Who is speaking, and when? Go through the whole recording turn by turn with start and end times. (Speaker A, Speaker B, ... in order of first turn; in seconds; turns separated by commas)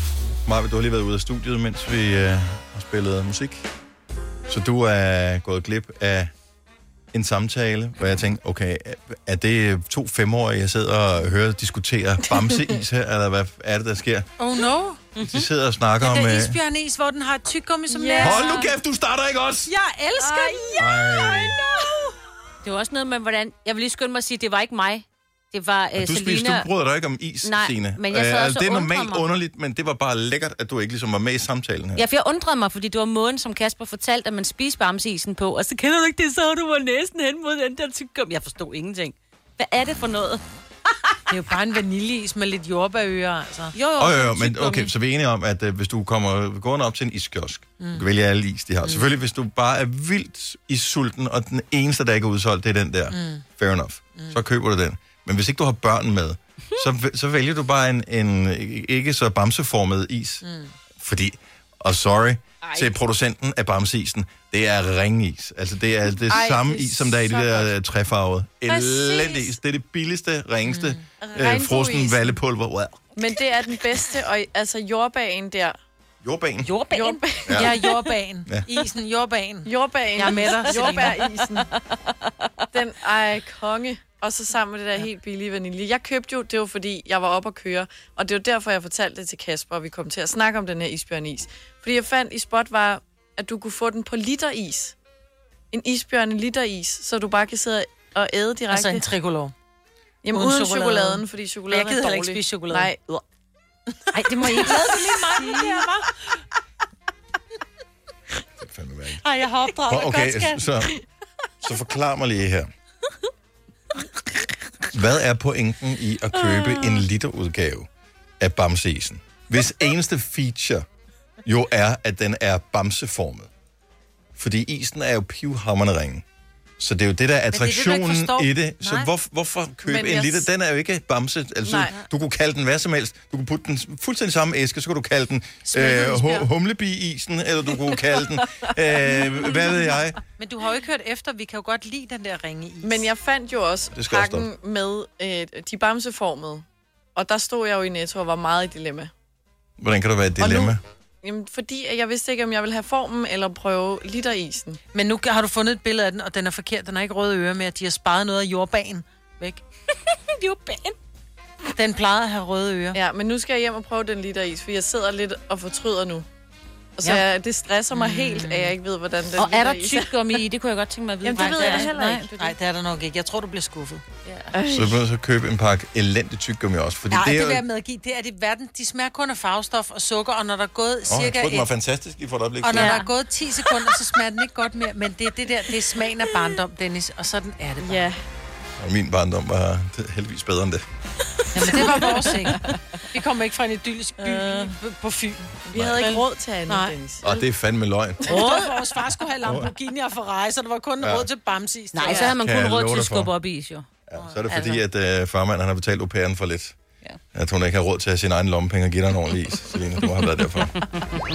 Speaker A: 0.5-3.6, Speaker A: 4.5-6.3, Speaker A: 7.1-14.3, Speaker B: 12.5-12.8, Speaker C: 14.4-15.1, Speaker D: 15.2-15.5, Speaker A: 15.2-16.6, Speaker C: 16.0-18.7, Speaker B: 17.9-18.6, Speaker A: 18.2-19.7, Speaker C: 19.6-21.9, Speaker B: 20.2-22.1, Speaker A: 20.8-21.6, Speaker D: 22.6-26.7, Speaker A: 25.9-32.0, Speaker D: 27.4-29.3, Speaker D: 31.9-40.4, Speaker C: 41.3-43.8, Speaker D: 43.7-44.9, Speaker A: 44.0-60.4, Speaker C: 53.1-53.4, Speaker C: 60.4-60.7, Speaker A: 61.0-73.0, Speaker B: 66.3-67.7, Speaker B: 68.7-69.6, Speaker C: 70.6-71.0, Speaker B: 71.2-72.4, Speaker B: 73.2-75.8, Speaker A: 76.2-76.7, Speaker D: 76.7-78.0, Speaker B: 76.9-77.9, Speaker A: 77.5-77.8, Speaker C: 77.5-81.3, Speaker B: 79.7-81.7, Speaker D: 80.5-81.7, Speaker B: 82.7-95.0, Speaker B: 95.7-99.1, Speaker C: 98.7-99.5, Speaker B: 100.2-103.2, Speaker C: 100.3-102.9, Speaker C: 104.1-106.1, Speaker D: 104.1-105.9, Speaker A: 108.6-109.2, Speaker C: 109.2-110.7, Speaker A: 109.8-110.9, Speaker A: 111.6-112.7, Speaker A: 114.9-117.9, Speaker B: 116.4-117.0, Speaker A: 118.4-120.8, Speaker A: 121.4-123.5, Speaker A: 124.3-126.2, Speaker A: 126.8-140.2, Speaker C: 127.5-129.1, Speaker B: 129.8-130.5, Speaker B: 131.6-131.9, Speaker C: 135.6-136.5, Speaker C: 140.4-143.1, Speaker B: 142.8-149.1, Speaker A: 143.9-144.5, Speaker A: 149.8-150.8, Speaker B: 150.4-154.8, Speaker C: 154.9-159.6, Speaker D: 160.3-160.9, Speaker C: 161.8-163.0, Speaker B: 162.9-166.2, Speaker B: 167.0-170.4, Speaker C: 167.9-168.7, Speaker D: 169.3-172.3, Speaker B: 171.2-172.6, Speaker C: 171.2-174.0, Speaker D: 174.2-174.5, Speaker B: 174.5-175.0, Speaker A: 174.7-177.6, Speaker C: 177.1-181.7, Speaker A: 181.1-183.0, Speaker C: 182.6-188.1, Speaker D: 182.7-183.1, Speaker B: 187.8-188.2, Speaker A: 188.8-190.8, Speaker C: 191.5-197.0, Speaker D: 191.6-192.8, Speaker B: 191.7-192.7, Speaker D: 194.3-194.7, Speaker B: 195.6-197.4, Speaker A: 195.7-196.1, Speaker A: 197.2-198.4, Speaker B: 198.2-198.6, Speaker C: 198.3-202.3, Speaker D: 198.3-198.7, Speaker A: 199.4-199.7, Speaker A: 201.0-201.3, Speaker D: 201.9-203.9, Speaker B: 202.0-202.3, Speaker A: 202.3-203.3, Speaker A: 204.1-206.7, Speaker C: 204.2-204.8, Speaker A: 207.3-210.8